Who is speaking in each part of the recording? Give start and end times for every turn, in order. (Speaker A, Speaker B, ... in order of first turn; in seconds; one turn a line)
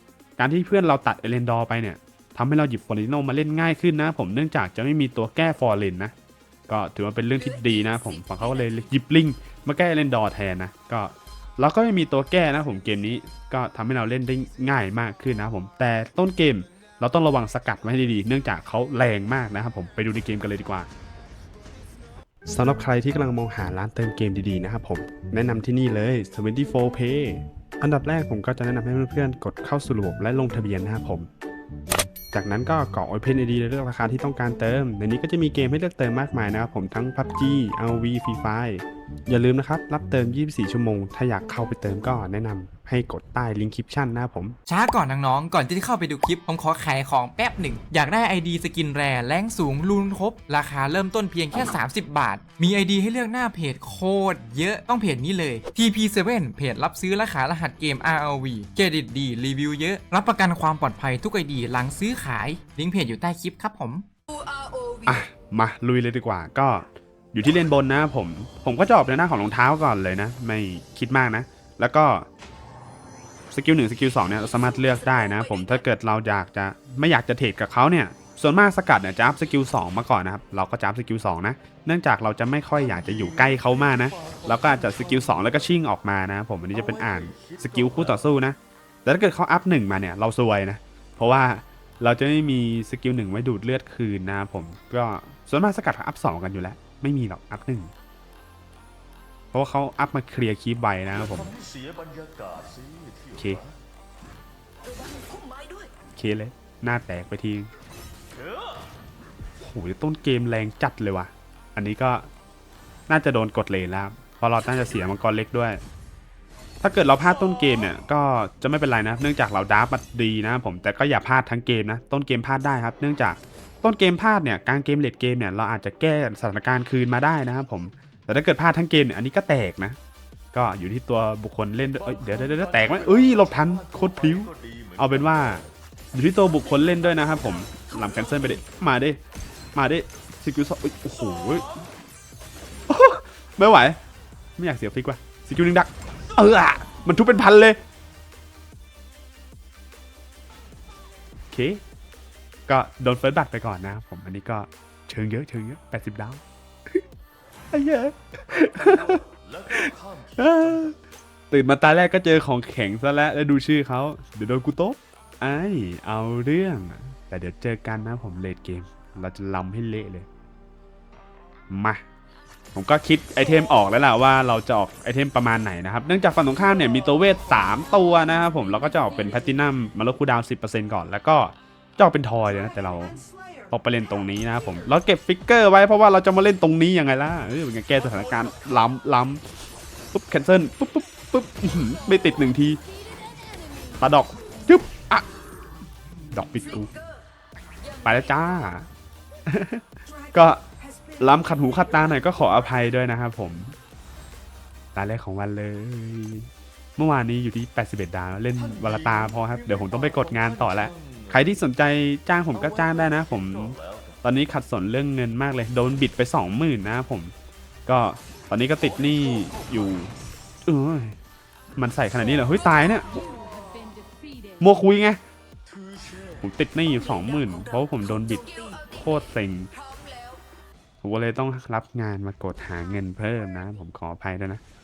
Speaker A: 0.4-6.1
Speaker A: 6.7-20.9
Speaker A: 22.5-31.3
Speaker A: 32.3-44.6
Speaker B: 44.7-64.1
Speaker A: 65.0-72.3
Speaker A: 73.5-97.9
Speaker A: 99.5-101.5
Speaker C: 101.5-103.1
Speaker A: 106.2-107.7
Speaker A: 109.6-112.3
Speaker A: 113.1-115.8
Speaker A: 116.8-130.0
Speaker A: 130.5-139.2
Speaker A: 139.8-141.7
Speaker A: 142.9-144.0
Speaker A: 144.6-147.8
Speaker A: 151.5-151.8
Speaker A: 152.7-156.4
Speaker A: 157.7-161.0
Speaker C: 158.9-160.3
Speaker A: 161.5-170.3
Speaker A: 171.7-172.0
Speaker A: 172.8-189.4
Speaker A: 190.1-192.8
Speaker A: 194.0-195.2
Speaker A: 196.3-196.9
Speaker A: 198.0-198.9
Speaker A: 199.5-200.6
Speaker A: 201.2-203.8
Speaker A: 204.9-217.3
Speaker C: 210.1-210.4
Speaker A: 217.9-220.1
Speaker A: 220.7-221.2
Speaker A: 221.8-223.1
Speaker A: 224.6-225.2
Speaker A: 226.4-229.7
Speaker A: 231.0-234.6